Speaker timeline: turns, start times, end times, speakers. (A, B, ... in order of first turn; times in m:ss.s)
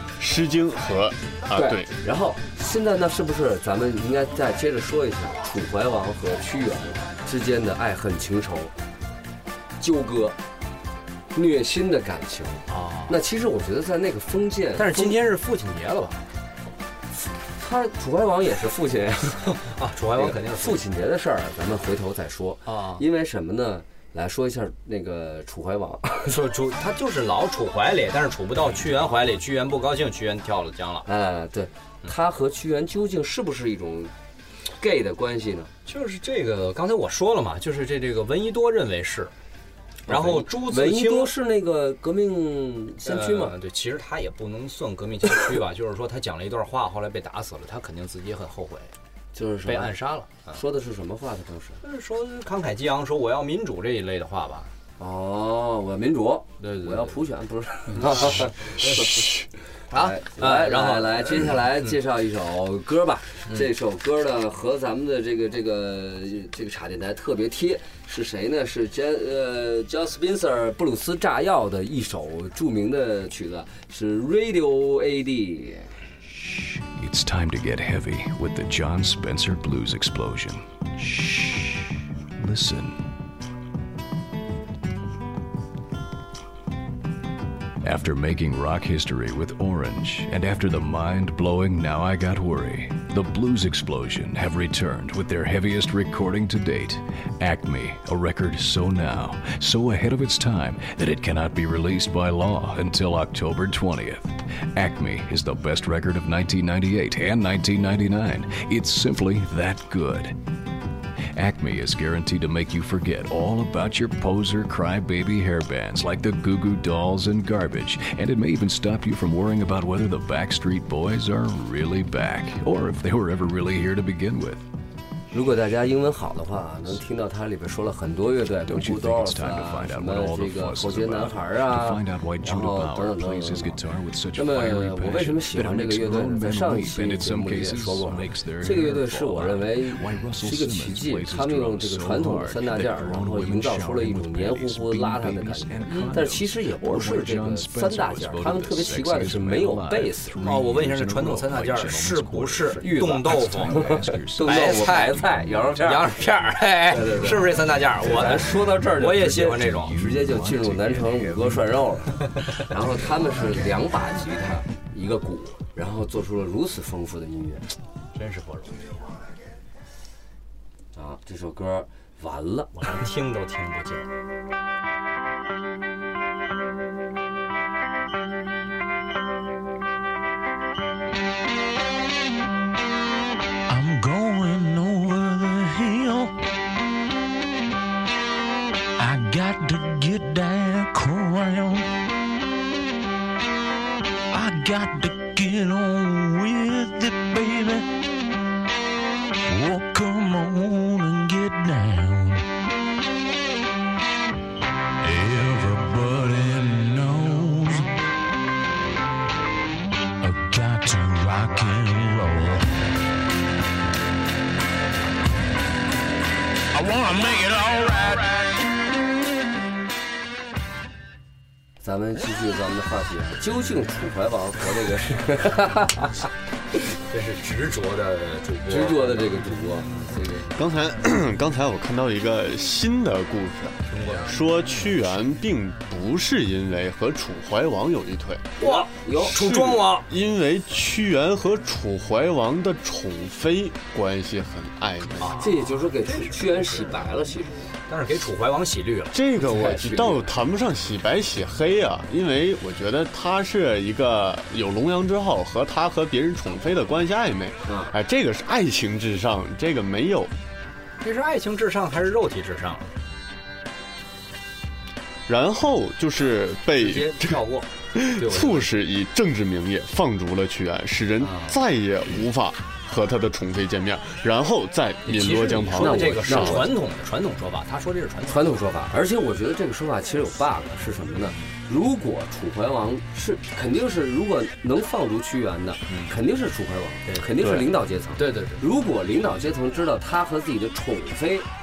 0:00.2-0:01.9 A
0:01.5-0:08.7 B
0:09.8-0:10.4 B
0:11.3-0:15.2 B
0:12.7-0:13.2 C
0:14.8-0:16.2 C
0:17.6-0:19.5 B
0:19.4-0:20.8 C
0:20.2-0:26.4 B
0:22.6-0:23.0 C
0:26.3-0:31.1 C
0:31.0-0:34.1 B
0:34.8-0:35.7 B
0:35.9-0:39.3 C
0:40.1-0:43.5 B
0:40.1-0:41.3 C
0:43.0-0:48.9 C
0:49.3-0:49.9 B
0:49.6-0:50.6 C
0:50.5-0:51.8 B
0:51.8-0:54.7 C
0:55.0-1:15.9 B
0:56.6-0:57.2 C
0:57.9-0:59.1 C
0:59.9-1:01.4 C
1:17.0-1:23.0 D
1:27.8-1:50.4 D
1:51.3-2:04.6 D
2:05.3-2:13.8 B
2:08.7-2:36.5 D
2:14.3-2:30.4 B
2:25.9-2:26.2 C
2:30.4-2:33.8 C
2:32.8-2:36.1 B
2:34.4-2:35.2 C
2:35.8-2:39.9 C
2:36.9-2:37.5 B
2:38.0-2:47.7 B
2:38.2-2:42.2 D
2:48.1-2:48.9 C
2:50.9-2:52.7 B
2:52.7-2:54.1 C
3:03.7-3:06.3 E
3:09.0-3:11.9 E
3:14.3-3:17.9 E
3:19.5-3:22.4 E
3:25.0-3:27.9 E
3:30.2-3:32.7 E
3:36.8-3:38.1 E
3:41.8-3:46.3 B
3:47.0-3:50.1 C
3:48.7-3:50.6 B
3:50.5-3:58.5 A
3:53.9-3:54.6 C
3:58.6-3:59.6 B
3:58.6-4:00.1 C
3:59.3-4:05.4 A
4:05.2-4:07.2 C
4:05.4-4:07.6 B
4:07.9-4:09.2 C
4:09.1-4:20.3 A
4:09.4-4:10.2 B
4:17.6-4:17.9 B
4:21.0-4:22.9 C
4:25.3-4:27.4 A
4:26.7-4:28.7 C
4:27.9-4:36.7 A
4:31.2-4:31.5 C
4:35.0-4:38.7 C
4:35.8-4:36.7 B
4:38.3-4:51.4 B
4:45.9-4:46.1 C
4:47.0-4:47.3 C
4:47.4-4:47.6 A
4:48.2-4:48.6 C